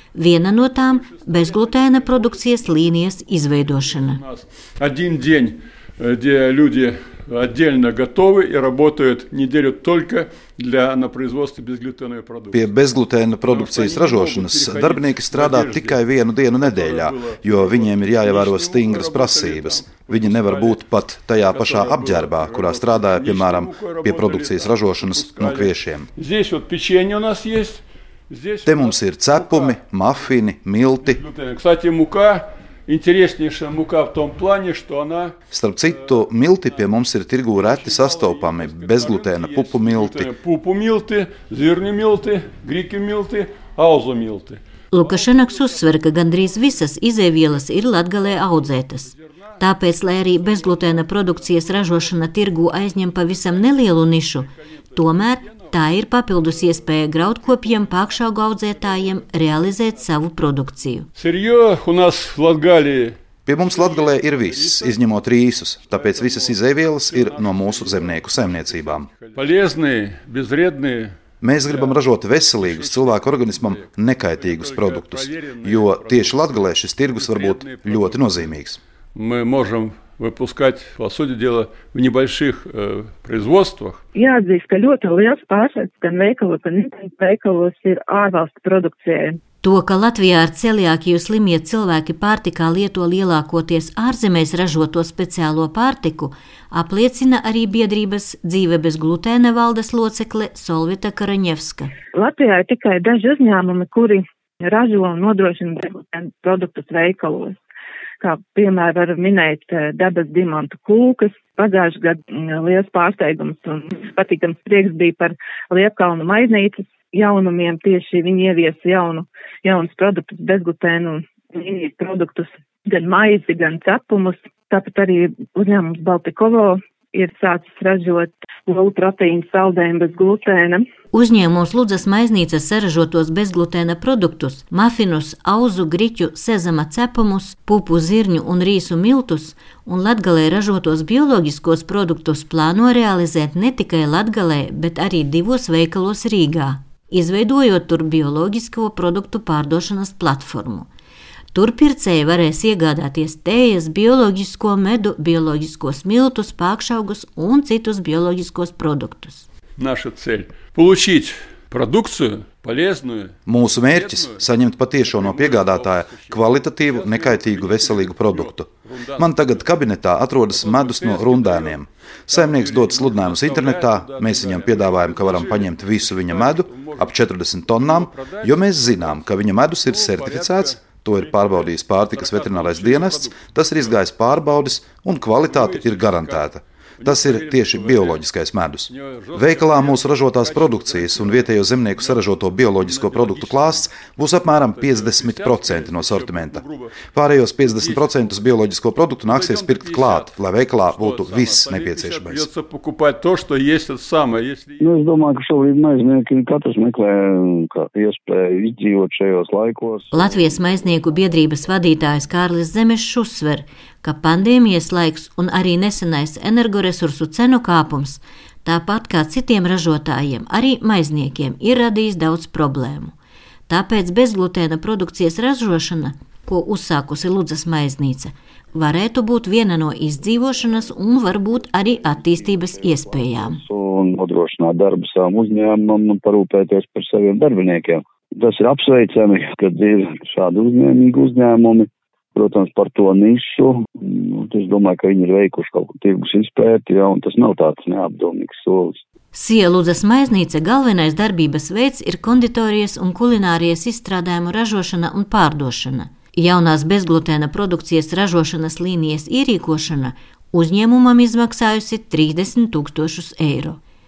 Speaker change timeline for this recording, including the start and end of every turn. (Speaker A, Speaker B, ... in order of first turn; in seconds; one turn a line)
Speaker A: 0.1-4.2
Speaker B: 0.6-12.7
Speaker C: 12.5-26.1
Speaker B: 13.4-16.0
Speaker B: 16.5-29.8
Speaker C: 28.6-31.2
Speaker B: 31.0-35.3
Speaker C: 35.5-40.3
Speaker B: 37.5-46.8
Speaker A: 44.9-61.1
Speaker B: 47.6-60.1
Speaker B: 61.1-65.0
Speaker C: 63.5-69.1
Speaker B: 65.9-71.2
Speaker C: 71.4-78.8
Speaker B: 71.7-72.0
Speaker B: 72.6-78.5
Speaker B: 79.1-84.0
Speaker D: 84.1-89.4
Speaker A: 89.6-101.9
Speaker D: 102.1-107.6
Speaker D: 108.2-130.8
Speaker A: 131.1-150.9
Speaker A: 151.5-159.5
Speaker B: 159.8-164.4
Speaker C: 163.5-202.5
Speaker B: 165.0-169.7
Speaker B: 170.5-177.2
Speaker B: 177.7-184.0
Speaker B: 185.4-188.2
Speaker B: 188.9-193.9
Speaker B: 194.6-197.0
Speaker B: 197.6-198.4
Speaker B: 199.3-204.9
Speaker E: 204.8-211.7
Speaker A: 210.1-223.1
Speaker A: 223.7-233.6
Speaker E: 230.3-249.0
Speaker A: 249.3-263.8